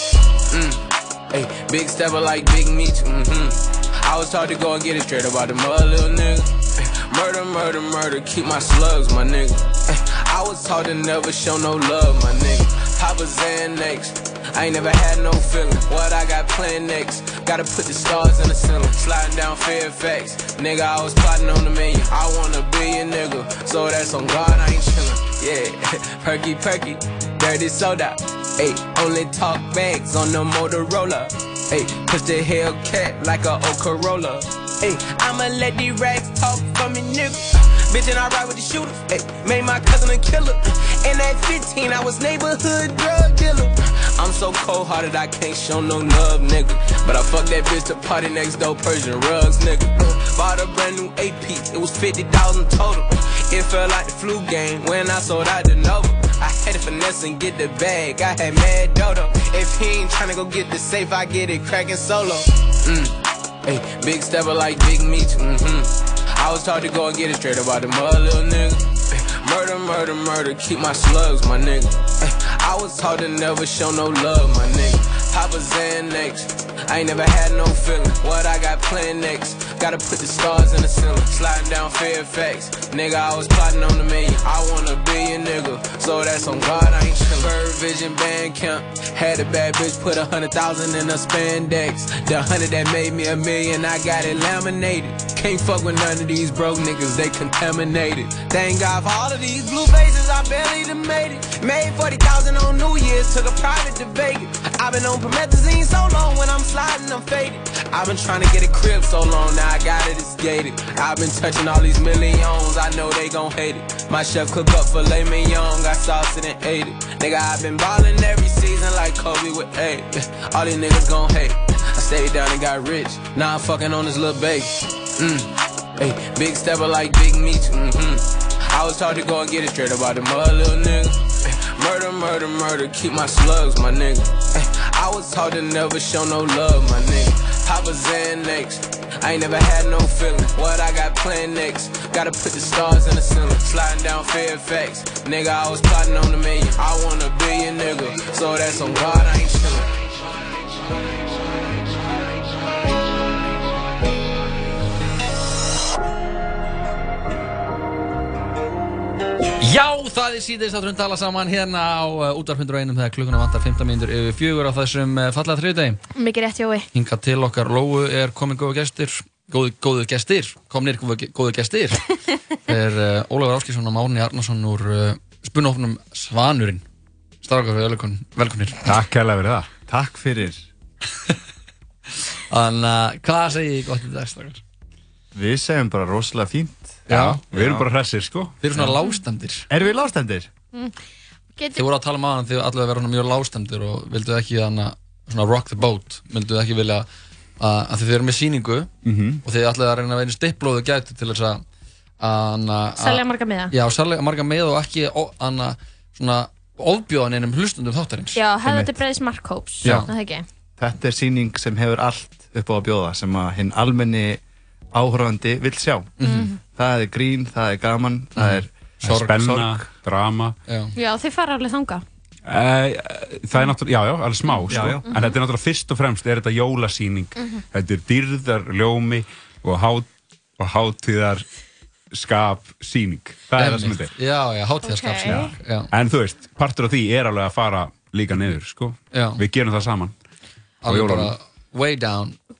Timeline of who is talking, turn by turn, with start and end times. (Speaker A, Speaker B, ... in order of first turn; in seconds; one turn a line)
Speaker A: 0.5-149.9
Speaker B: 159.6-166.0
Speaker C: 166.1-166.9
Speaker B: 166.9-172.1
Speaker B: 172.7-176.8
Speaker B: 177.4-178.9
Speaker D: 178.8-179.7
Speaker E: 179.9-180.7
Speaker B: 182.5-184.6
Speaker E: 185.3-187.0
Speaker B: 187.1-187.4
Speaker D: 187.1-188.5
Speaker E: 187.5-187.8
Speaker B: 188.6-189.7
Speaker E: 189.7-190.5
Speaker C: 191.6-191.8
Speaker B: 191.7-197.1
Speaker B: 197.6-198.9
Speaker D: 199.0-199.4
Speaker B: 199.4-201.6
Speaker B: 202.2-208.4
Speaker C: 203.0-203.7
Speaker C: 208.3-210.4
Speaker B: 209.8-210.1
Speaker E: 210.8-214.4
Speaker E: 214.9-216.1
Speaker B: 216.2-216.5
Speaker C: 216.2-216.6
Speaker E: 216.7-218.7
Speaker B: 218.3-219.6
Speaker D: 219.1-220.5
Speaker E: 219.4-219.7
Speaker B: 220.7-220.9
Speaker C: 220.9-222.0
Speaker D: 222.4-231.4
Speaker C: 224.5-225.3
Speaker E: 224.7-225.1
Speaker D: 232.1-234.1
Speaker B: 233.6-235.9
Speaker C: 234.8-235.5
Speaker D: 235.9-240.1
Speaker B: 239.1-239.4
Speaker B: 240.8-242.3
Speaker D: 240.9-241.3